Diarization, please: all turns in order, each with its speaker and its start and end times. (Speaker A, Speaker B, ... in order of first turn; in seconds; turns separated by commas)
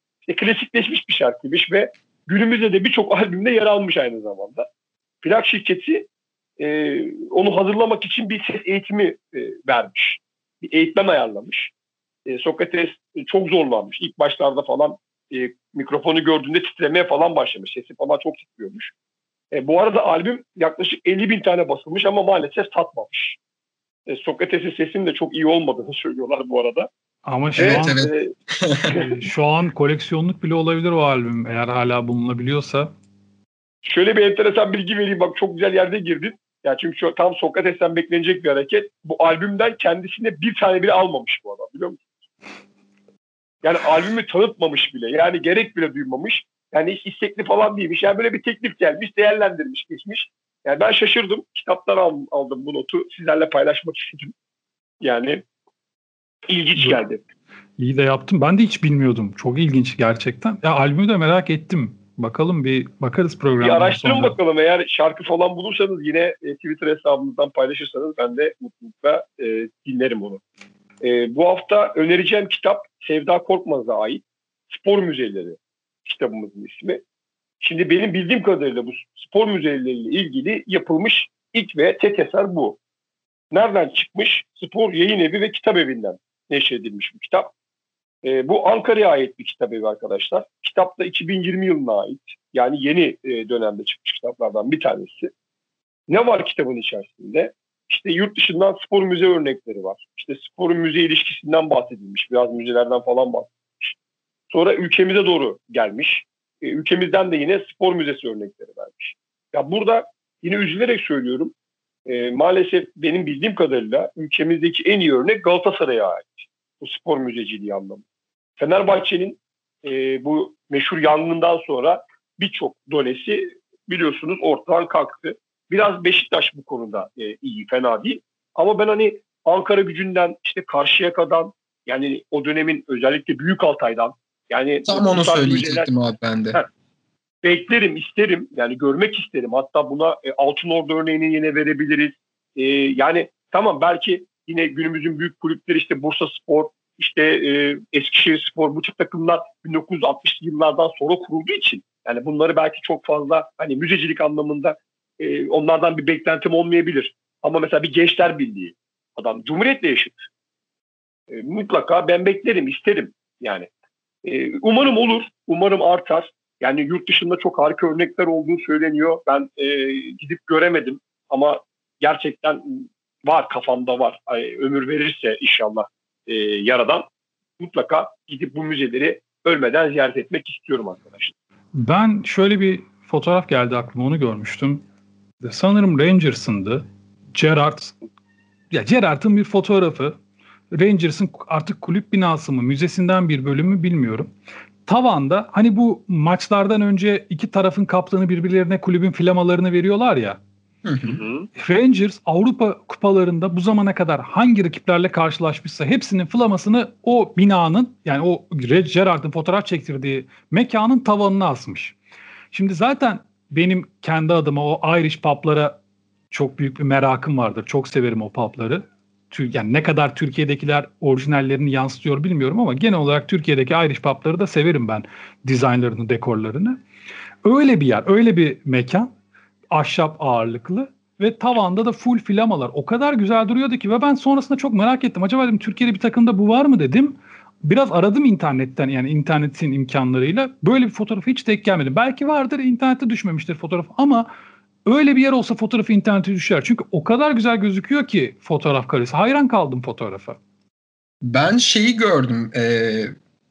Speaker A: 0.3-4.7, Speaker A: 5.2-6.1, Speaker A: 6.6-11.7, Speaker A: 12.3-18.9, Speaker A: 19.5-23.4, Speaker A: 24.1-26.9, Speaker B: 27.2-28.1, Speaker A: 27.6-28.3, Speaker C: 27.6-28.1, Speaker C: 28.6-28.9, Speaker B: 28.9-32.9, Speaker A: 33.8-42.0, Speaker A: 43.6-54.3, Speaker A: 55.0-55.4, Speaker A: 56.5-57.2, Speaker B: 57.8-64.4, Speaker A: 63.6-70.4, Speaker A: 71.0-77.0, Speaker A: 77.6-82.8, Speaker A: 83.5-87.5, Speaker A: 88.2-95.3, Speaker A: 96.1-104.0, Speaker A: 104.5-111.5, Speaker A: 112.1-118.0, Speaker A: 118.6-135.9, Speaker C: 134.9-136.6, Speaker A: 137.4-160.3, Speaker A: 161.3-163.7, Speaker A: 164.2-177.1, Speaker A: 177.6-181.3, Speaker B: 181.7-184.8, Speaker B: 185.4-187.9, Speaker B: 188.7-190.2, Speaker B: 190.7-194.3, Speaker B: 194.9-200.4, Speaker C: 200.8-201.1, Speaker A: 201.1-201.5, Speaker B: 201.6-212.0, Speaker B: 212.5-215.8, Speaker B: 216.3-226.8, Speaker B: 227.4-229.1, Speaker B: 229.7-244.3, Speaker B: 244.8-250.4, Speaker C: 251.2-253.1